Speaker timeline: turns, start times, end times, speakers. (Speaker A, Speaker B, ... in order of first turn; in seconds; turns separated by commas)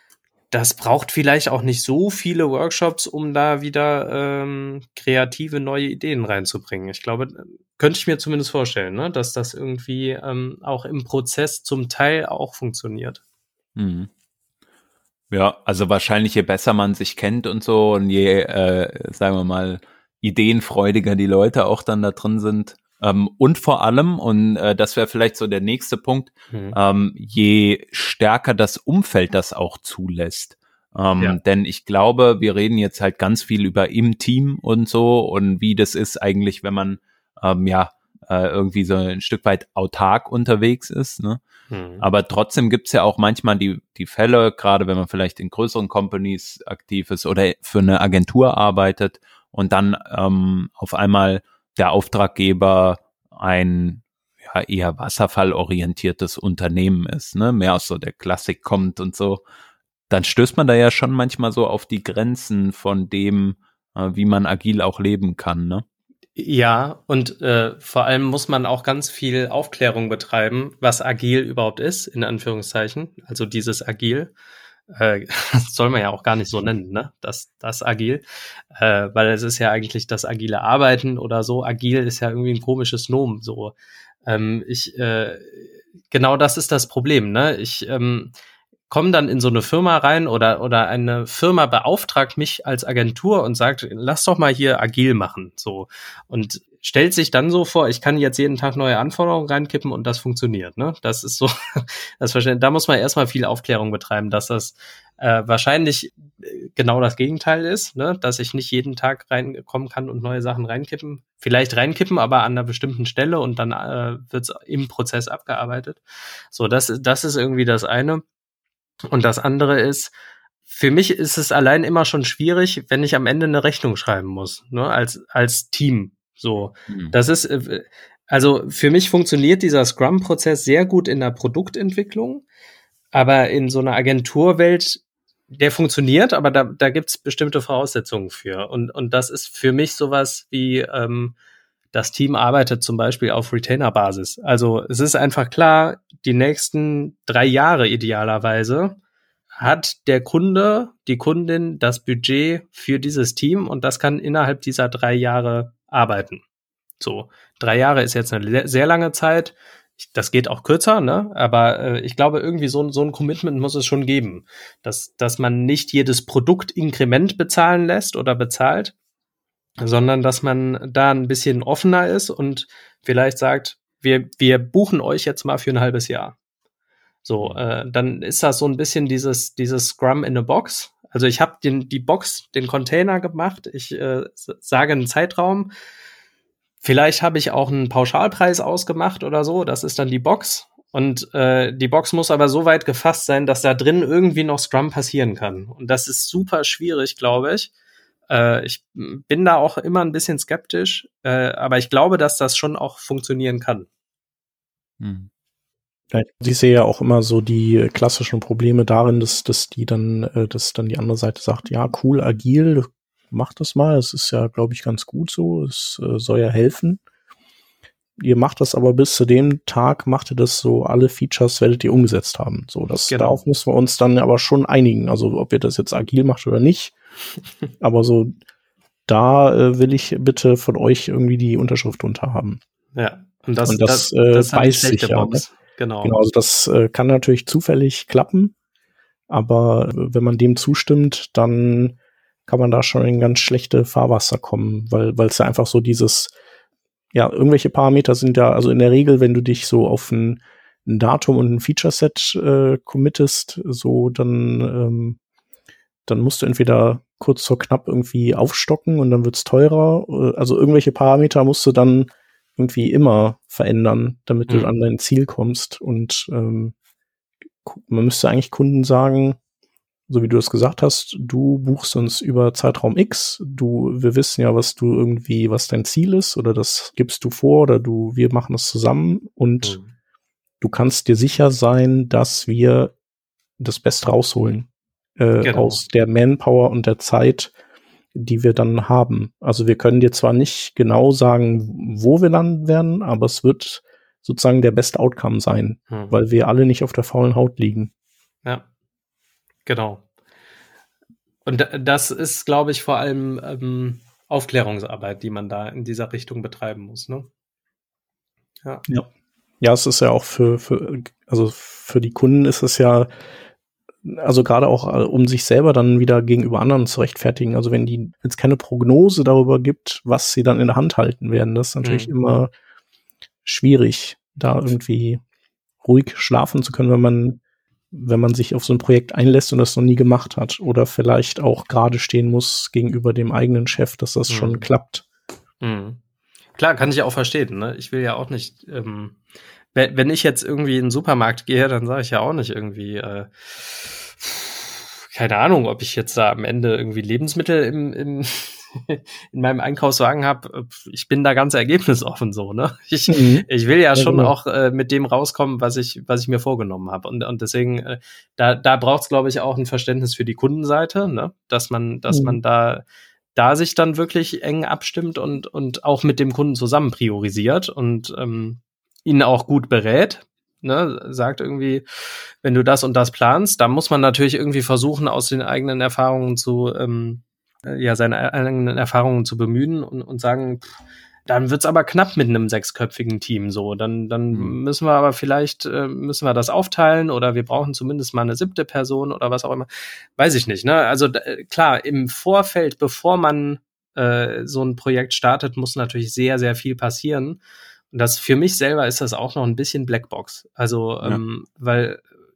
Speaker A: 0.5-13.2, Speaker B: 13.8-14.1, Speaker B: 15.3-41.4, Speaker A: 26.5-26.8, Speaker A: 41.7-42.1, Speaker B: 42.0-59.4, Speaker B: 60.1-65.8, Speaker A: 66.4-74.3, Speaker A: 74.9-83.8, Speaker A: 84.3-88.3, Speaker A: 88.9-116.0, Speaker A: 116.5-118.2, Speaker A: 119.1-120.1, Speaker A: 120.7-132.4, Speaker A: 133.1-141.3, Speaker A: 141.9-149.0, Speaker A: 149.6-156.4, Speaker A: 157.0-168.9, Speaker A: 169.8-176.3, Speaker A: 177.2-185.7, Speaker A: 186.8-197.7, Speaker A: 198.3-203.9, Speaker B: 205.0-205.3, Speaker C: 206.1-217.0, Speaker C: 218.2-226.9, Speaker A: 223.1-223.4, Speaker C: 227.8-228.3, Speaker C: 229.1-232.6, Speaker A: 232.9-236.2, Speaker C: 233.7-235.4, Speaker C: 236.0-238.5, Speaker C: 239.3-246.3, Speaker C: 247.1-255.2, Speaker C: 256.1-266.8, Speaker C: 267.6-269.4, Speaker C: 270.1-279.8, Speaker A: 279.6-279.9, Speaker C: 280.6-282.9, Speaker C: 283.6-287.5, Speaker A: 285.4-285.8, Speaker C: 288.1-297.9, Speaker A: 295.9-296.1, Speaker A: 299.6-300.0, Speaker A: 301.5-307.3, Speaker C: 309.6-313.1, Speaker C: 314.0-322.5, Speaker A: 321.8-322.1, Speaker C: 323.4-325.2, Speaker C: 325.8-327.4, Speaker C: 327.9-335.0, Speaker A: 334.3-334.6, Speaker A: 335.6-336.0, Speaker A: 336.5-339.2, Speaker A: 339.8-362.8, Speaker C: 353.1-354.3, Speaker C: 362.1-362.4, Speaker A: 363.4-371.9, Speaker A: 372.4-380.7, Speaker A: 381.3-397.4, Speaker A: 397.9-402.0